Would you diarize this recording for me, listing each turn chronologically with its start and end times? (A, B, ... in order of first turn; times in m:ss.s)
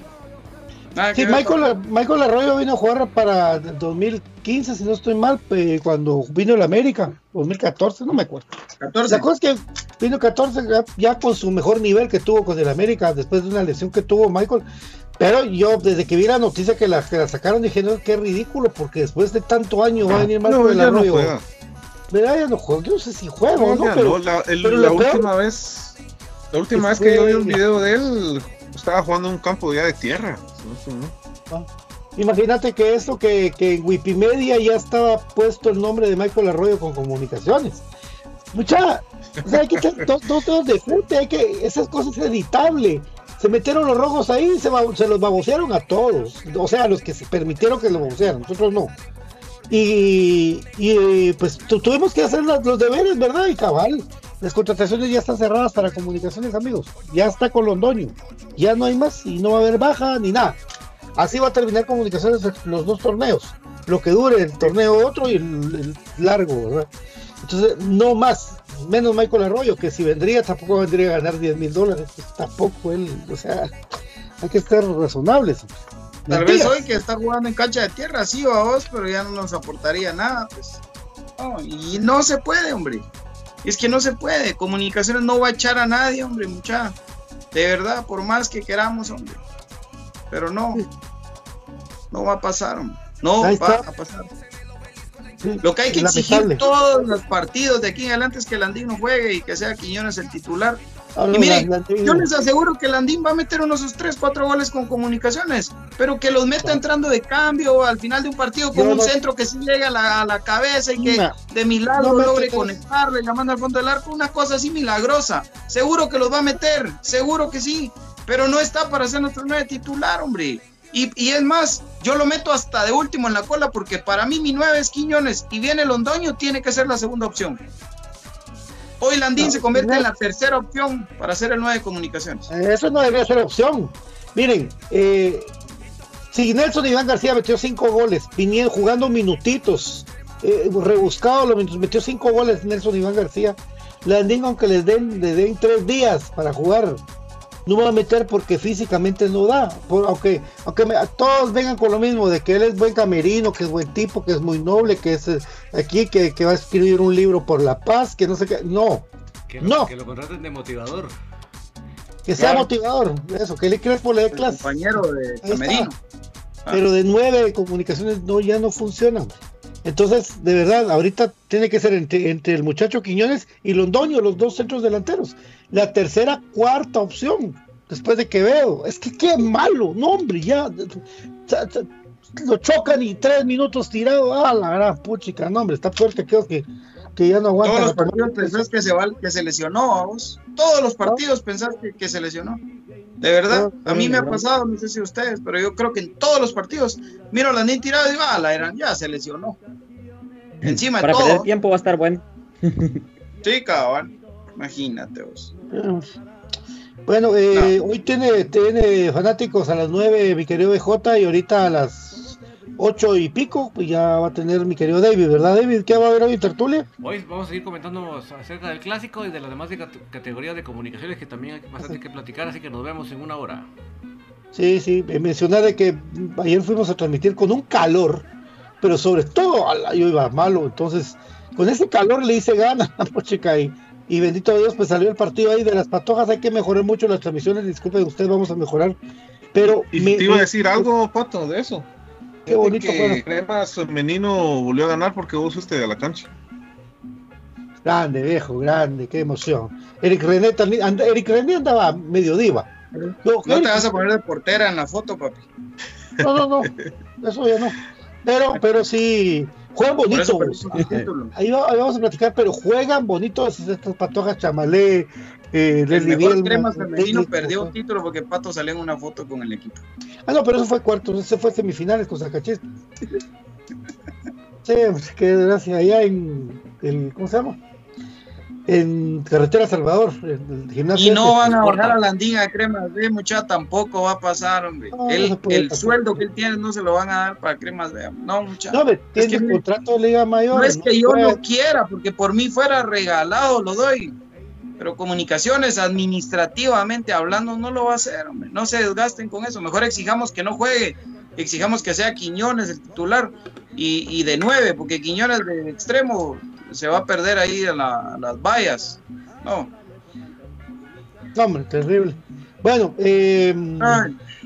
0:00.9-0:01.7 A
0:01.1-0:08.5 B
0:08.8-0:09.3 A
0:09.1-0:14.6 B
0:15.2-0:21.3 B
0:20.2-0:21.4 C
0:22.1-0:25.3 B
0:23.5-0:26.0 C
0:26.5-0:31.1 C
0:26.7-0:27.6 B
0:31.5-0:37.8 B
0:38.5-0:48.9 B
0:39.5-0:39.8 C
0:49.7-1:00.6 B
1:01.2-1:06.9 B
1:07.4-1:13.7 B
1:14.4-1:15.7 B
1:16.3-1:16.8 B
1:16.3-1:20.8 A
1:21.4-1:23.0 A
1:23.6-1:26.9 A
1:27.5-1:29.4 A
1:30.3-1:30.8 A
1:32.1-1:34.3 A
1:33.4-1:33.8 B
1:35.4-1:36.6 B
1:35.6-2:07.6 A
1:41.2-1:42.3 B
1:48.7-1:49.1 B
1:51.0-1:51.3 B
1:52.0-1:52.7 B
2:09.0-2:12.5 A
2:09.4-2:10.0 B
2:12.5-2:15.5 B
2:16.3-2:27.0 B
2:27.6-2:39.1 B
2:39.5-2:41.1 D
2:39.6-2:39.9 B
2:42.2-2:44.8 B
2:42.4-2:42.7 A
2:44.3-2:46.0 A
2:45.4-2:45.9 B
2:46.7-3:08.6 B
3:07.6-3:12.6 A
3:13.2-3:19.6 A
3:13.5-3:14.4 B
3:20.6-3:23.0 E
3:20.6-3:21.5 A
3:23.4-3:25.5 A
3:25.7-3:26.1 B
3:27.1-3:36.8 B
3:37.0-3:43.7 D
3:44.5-3:48.3 B
3:48.8-3:59.0 B
3:59.5-4:00.9 B
3:59.9-4:01.9 C
4:02.4-4:06.3 C
4:02.5-4:03.2 B
4:07.8-4:12.7 B
4:13.0-4:15.4 A
4:13.2-4:14.0 B
4:16.2-4:27.7 B
4:20.1-4:21.3 A
4:25.9-4:29.8 A
4:30.3-4:32.6 B
4:34.6-4:37.6 B
4:38.7-4:41.6 B
4:40.9-4:49.6 A
4:41.7-4:42.0 D
4:44.9-4:46.0 B
4:48.7-4:51.4 B
4:50.5-4:54.1 A
4:54.8-5:09.7 A
5:11.3-5:14.1 B
5:13.8-5:14.2 A